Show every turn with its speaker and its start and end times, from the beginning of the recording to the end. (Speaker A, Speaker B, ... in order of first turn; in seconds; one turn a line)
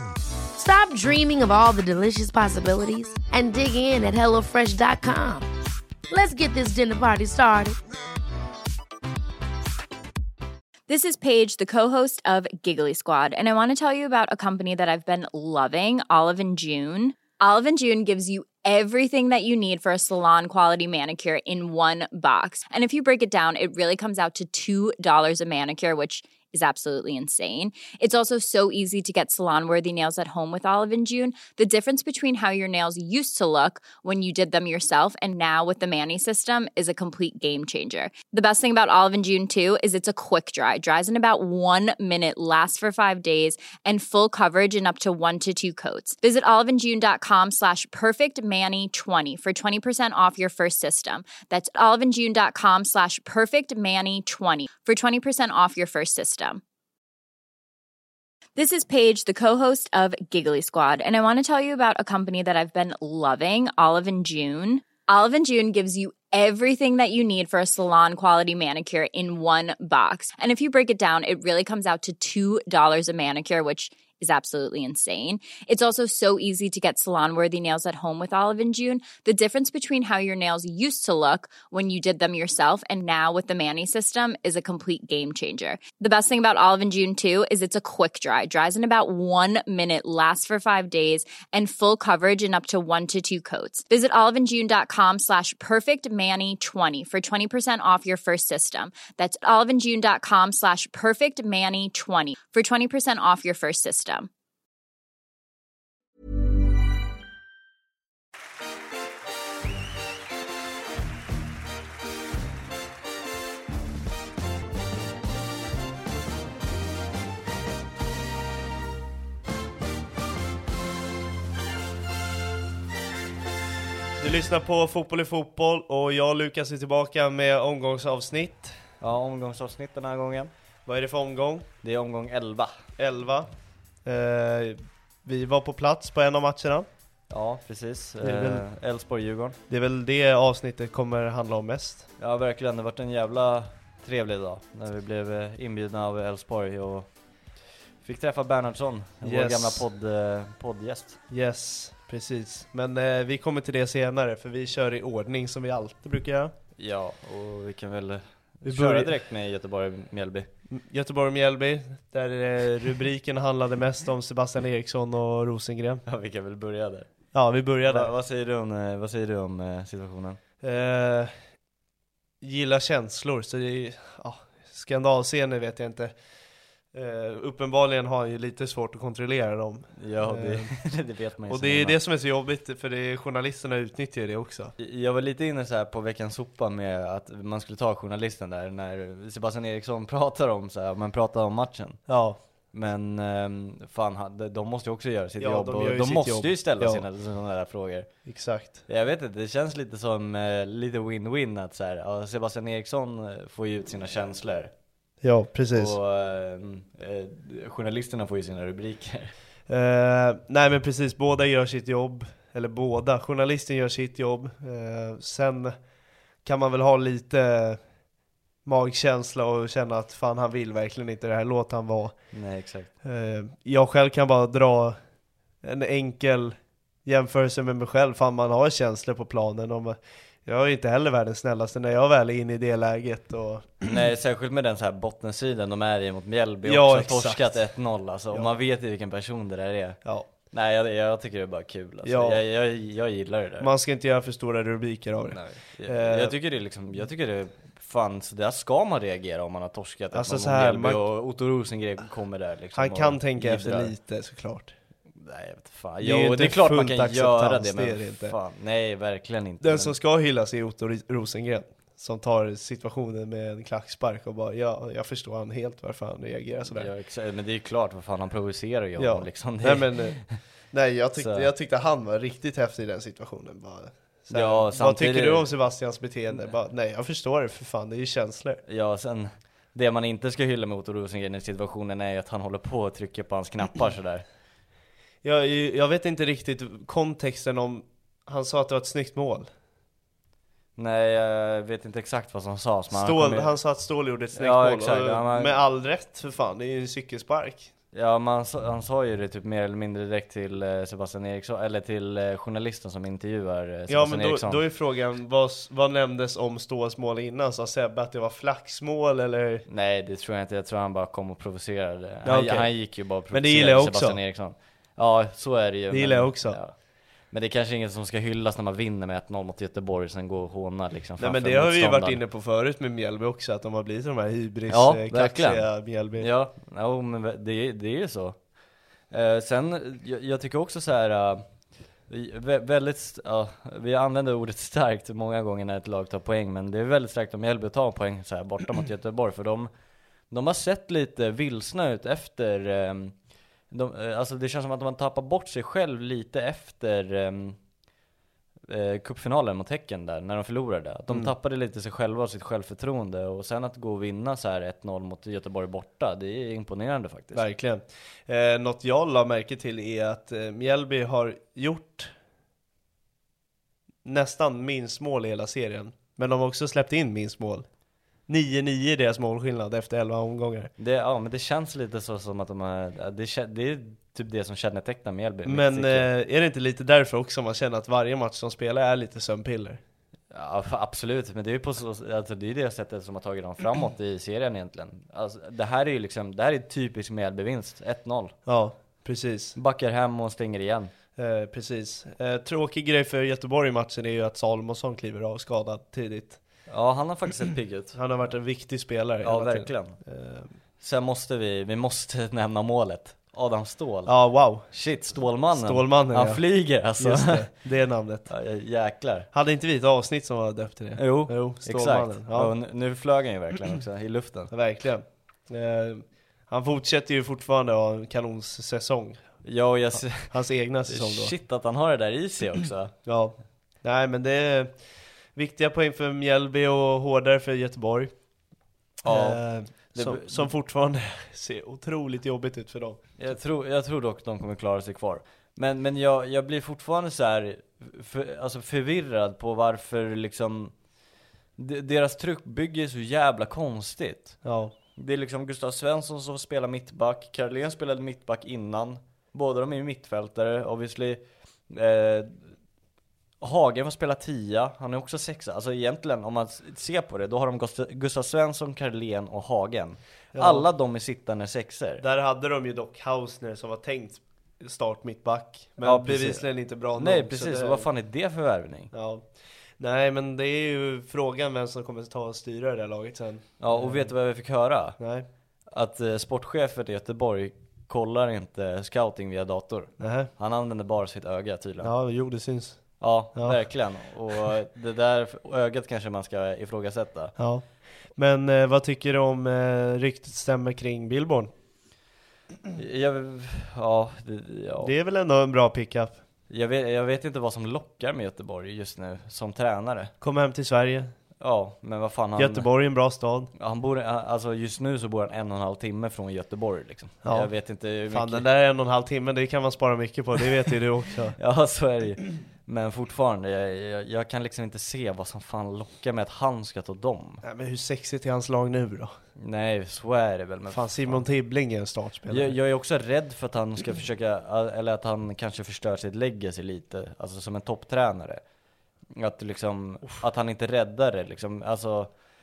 Speaker A: 0.6-5.5
Speaker A: 6.1-7.8
Speaker B: 10.9-56.6
Speaker B: 58.6-104.3
Speaker C: 124.2-128.7
Speaker D: 129.0-130.5
Speaker C: 130.9-131.7
Speaker D: 131.8-132.8
Speaker C: 133.0-133.5
Speaker C: 134.1-136.9
Speaker D: 137.3-139.6
Speaker C: 138.2-138.7
Speaker C: 139.7-142.1
Speaker D: 142.2-147.1
Speaker D: 148.0-151.2
Speaker C: 149.2-149.8
Speaker C: 151.3-156.5
Speaker D: 156.8-160.5
Speaker C: 158.7-159.1
Speaker C: 160.7-166.0
Speaker D: 166.1-167.1
Speaker C: 167.3-168.1
Speaker D: 167.8-170.4
Speaker C: 170.6-171.3
Speaker C: 172.4-176.2
Speaker C: 176.9-180.7
Speaker D: 180.0-182.0
Speaker C: 181.5-184.7
Speaker D: 184.8-192.0
Speaker C: 192.1-192.4
Speaker D: 192.7-198.1
Speaker C: 195.4-197.0
Speaker C: 198.3-198.8
Speaker D: 198.9-204.7
Speaker C: 205.2-206.0
Speaker D: 205.7-209.3
Speaker C: 209.7-215.8
Speaker C: 216.4-217.8
Speaker C: 218.7-222.2
Speaker D: 222.3-222.9
Speaker C: 223.0-225.0
Speaker C: 225.6-233.9
Speaker D: 233.8-243.7
Speaker C: 236.6-237.6
Speaker C: 242.1-242.4
Speaker C: 243.6-246.3
Speaker D: 245.3-253.9
Speaker C: 250.1-251.0
Speaker C: 252.8-254.7
Speaker D: 255.2-260.0
Speaker C: 256.0-258.4
Speaker C: 259.6-266.9
Speaker D: 266.7-270.4
Speaker C: 269.0-270.2
Speaker C: 270.7-278.6
Speaker D: 271.2-271.5
Speaker D: 274.3-275.5
Speaker D: 278.7-284.2
Speaker C: 285.2-289.5
Speaker D: 290.8-293.5
Speaker C: 292.9-297.7
Speaker D: 294.4-295.6
Speaker D: 297.9-304.6
Speaker C: 303.9-309.7
Speaker D: 309.7-316.7
Speaker C: 312.2-314.2
Speaker C: 315.9-316.6
Speaker D: 317.3-322.2
Speaker C: 321.2-326.3
Speaker D: 324.7-328.4
Speaker D: 329.1-331.4
Speaker D: 332.1-339.7
Speaker D: 340.3-343.1
Speaker D: 343.7-347.6
Speaker D: 348.7-357.4
Speaker C: 357.3-362.1
Speaker C: 364.0-367.7
Speaker C: 368.3-370.7
Speaker D: 370.8-376.1
Speaker C: 375.5-379.8
Speaker D: 380.3-388.4
Speaker C: 388.5-389.6
Speaker D: 389.6-390.9
Speaker C: 391.2-396.4
Speaker D: 396.7-398.0
Speaker C: 397.9-400.5
Speaker D: 399.2-400.0
Speaker D: 400.8-407.5
Speaker C: 404.1-404.7
Speaker C: 405.5-406.4
Speaker C: 407.0-408.3
Speaker D: 408.3-409.3
Speaker C: 409.3-412.5
Speaker D: 411.0-414.5
Speaker C: 414.5-419.2
Speaker D: 419.4-420.4
Speaker C: 419.9-421.3
Speaker D: 420.9-422.9
Speaker C: 423.1-424.7
Speaker C: 425.4-428.1
Speaker D: 429.0-430.5
Speaker C: 429.1-433.1
Speaker D: 433.2-440.7
Speaker D: 441.6-444.4
Speaker C: 444.4-444.7
Speaker D: 445.0-452.5
Speaker D: 453.4-462.0
Speaker C: 460.3-460.7
Speaker C: 462.0-467.9
Speaker D: 465.8-468.9
Speaker C: 468.9-469.3
Speaker C: 469.8-474.1
Speaker D: 473.6-475.0
Speaker C: 475.0-475.3
Speaker D: 475.7-481.9
Speaker C: 480.0-480.3
Speaker C: 481.8-483.6
Speaker D: 483.0-487.4
Speaker C: 487.4-491.5
Speaker D: 492.7-494.9
Speaker C: 494.8-496.2
Speaker D: 496.5-500.1
Speaker C: 500.2-501.1
Speaker D: 501.4-502.7
Speaker C: 502.4-503.5
Speaker D: 503.6-508.5
Speaker C: 507.2-507.5
Speaker C: 508.1-511.4
Speaker D: 511.4-517.4
Speaker C: 517.4-519.1
Speaker D: 519.4-521.2
Speaker C: 520.7-522.5
Speaker D: 522.3-528.4
Speaker D: 529.2-532.1